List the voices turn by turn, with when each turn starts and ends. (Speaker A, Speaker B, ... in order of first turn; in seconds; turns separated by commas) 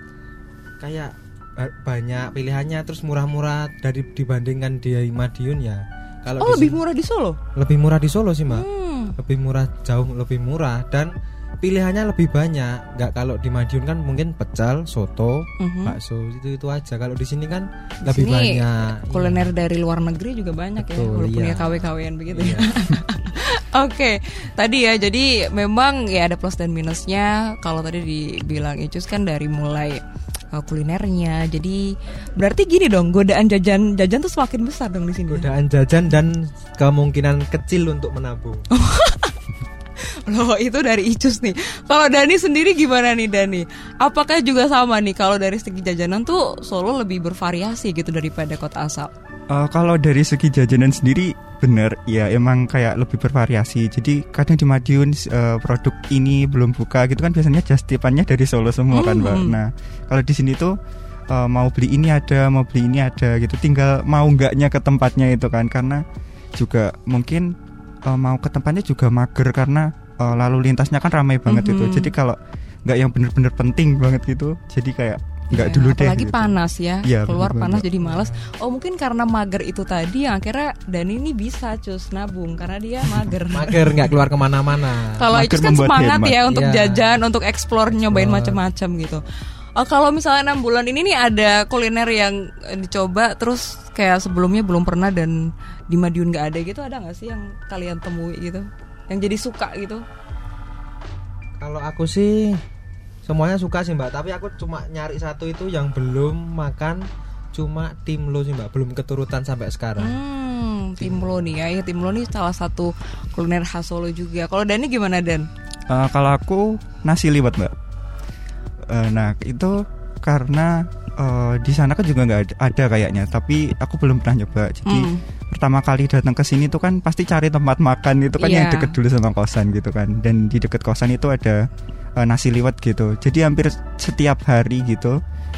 Speaker A: 0.8-6.8, Speaker B: 6.4-7.4, Speaker A: 7.5-8.7, Speaker B: 8.5-9.2, Speaker A: 9.2-19.5, Speaker B: 15.6-16.0, Speaker B: 18.0-30.0, Speaker A: 20.8-22.8, Speaker B: 30.5-35.5, Speaker A: 35.3-38.7, Speaker B: 38.7-39.4, Speaker B: 40.2-49.1, Speaker C: 49.5-60.8, Speaker B: 58.9-59.6, Speaker C: 61.3-66.0, Speaker C: 66.6-67.5, Speaker C: 68.0-77.9, Speaker B: 71.5-72.1, Speaker B: 75.5-84.0, Speaker A: 78.0-78.5, Speaker A: 83.5-85.2, Speaker B: 85.2-89.2, Speaker C: 85.3-86.4, Speaker A: 86.5-87.1, Speaker A: 87.9-88.6, Speaker B: 89.8-100.0, Speaker A: 101.6-102.6, Speaker A: 103.2-110.2, Speaker B: 110.0-115.5, Speaker A: 111.0-111.5, Speaker C: 115.9-117.7, Speaker C: 118.9-131.7, Speaker B: 124.8-125.2, Speaker B: 128.4-128.9, Speaker C: 132.2-135.2